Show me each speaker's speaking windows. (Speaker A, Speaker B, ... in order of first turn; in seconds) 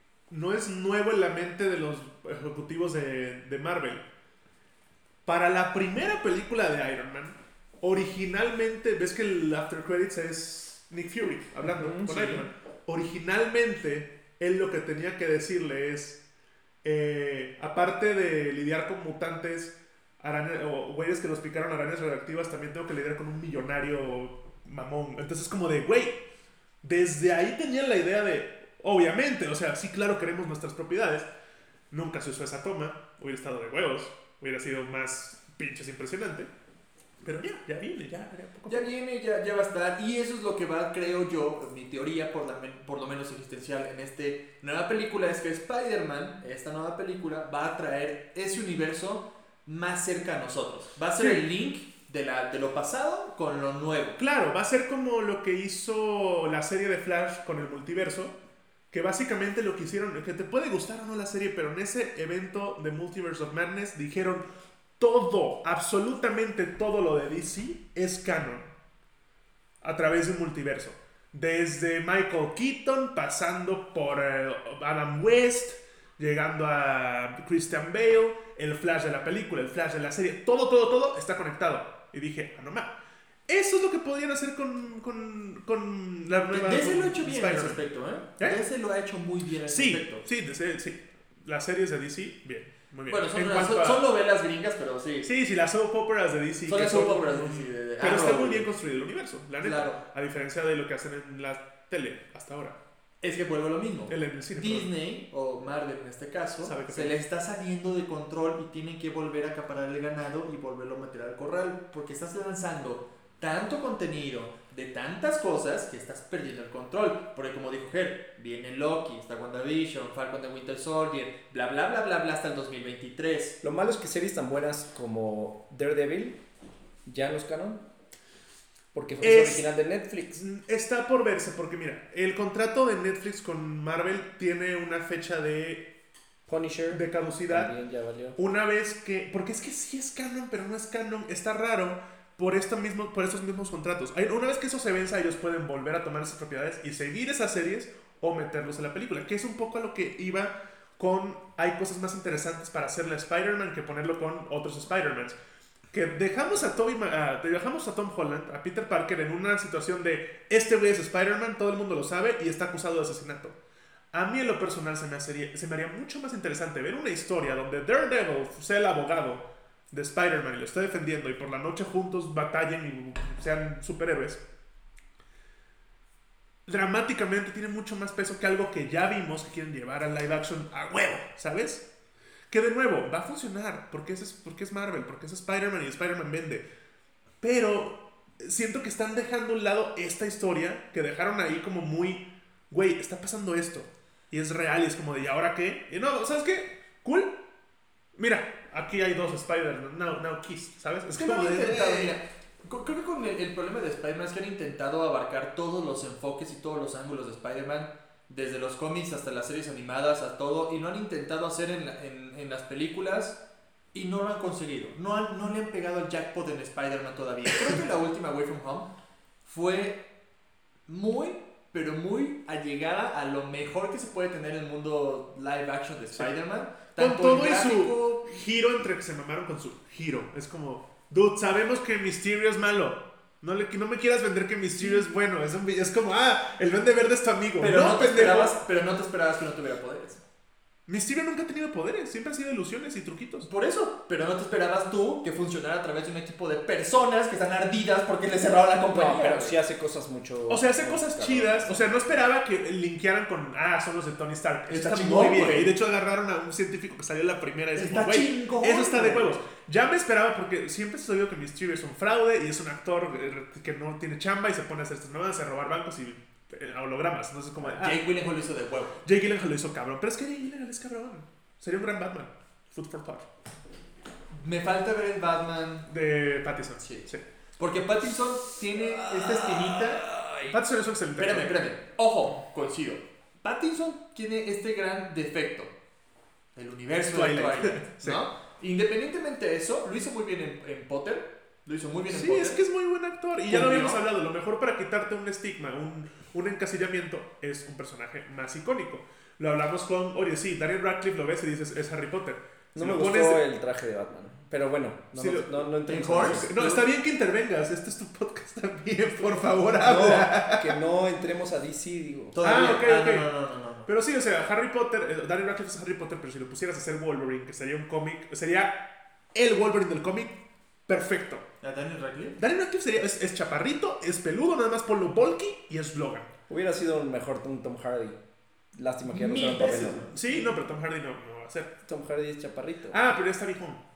Speaker A: 0.3-4.0, 5.2-16.2, 16.8-26.2, 26.8-31.3, 31.9-36.5, 37.2-38.9, 54.2-58.4, 58.9-64.4, 65.0-68.7, 69.8-82.9, 83.5-87.8, 89.7-94.0, 95.2-102.8, 104.1-104.9, 106.6-107.2, 129.2-129.7, 130.3-135.8, 136.9-137.7, 138.4-155.4, 155.9-163.6, 164.1-174.4, 176.7-181.8, 182.5-186.6, 187.4-197.3, 198.2-202.2, 226.9-238.5, 240.9-243.5, 250.5-268.0, 269.0-273.2, 275.9-277.2, 280.3-281.6, 287.0-288.2, 292.1-303.4, 305.1-310.8, 312.4-313.3, 313.9-318.8, 319.3-320.3, 320.9-321.4, 322.4-326.3, 330.1-331.7, 332.9-333.8
Speaker B: 11.6-12.4, 123.6-126.4, 127.0-127.8, 128.9-130.4, 136.5-138.4, 248.9-251.9, 279.1-280.5, 302.7-306.5, 309.8-312.4, 326.5-328.2, 328.7-330.1, 331.8-333.0
Speaker C: 38.7-54.2, 86.5-90.2, 93.1-95.3, 96.7-98.7, 99.6-100.0, 103.2-123.6, 201.1-213.4, 213.9-218.9, 219.4-220.0, 220.9-228.2, 237.6-240.2, 243.4-249.6, 254.7-255.7, 257.8-259.4, 267.6-269.0, 274.3-275.9, 276.8-280.1, 281.2-285.7, 286.6-292.6, 293.4-294.0, 305.9-306.8, 312.3-313.9, 321.6-322.4, 329.1-330.5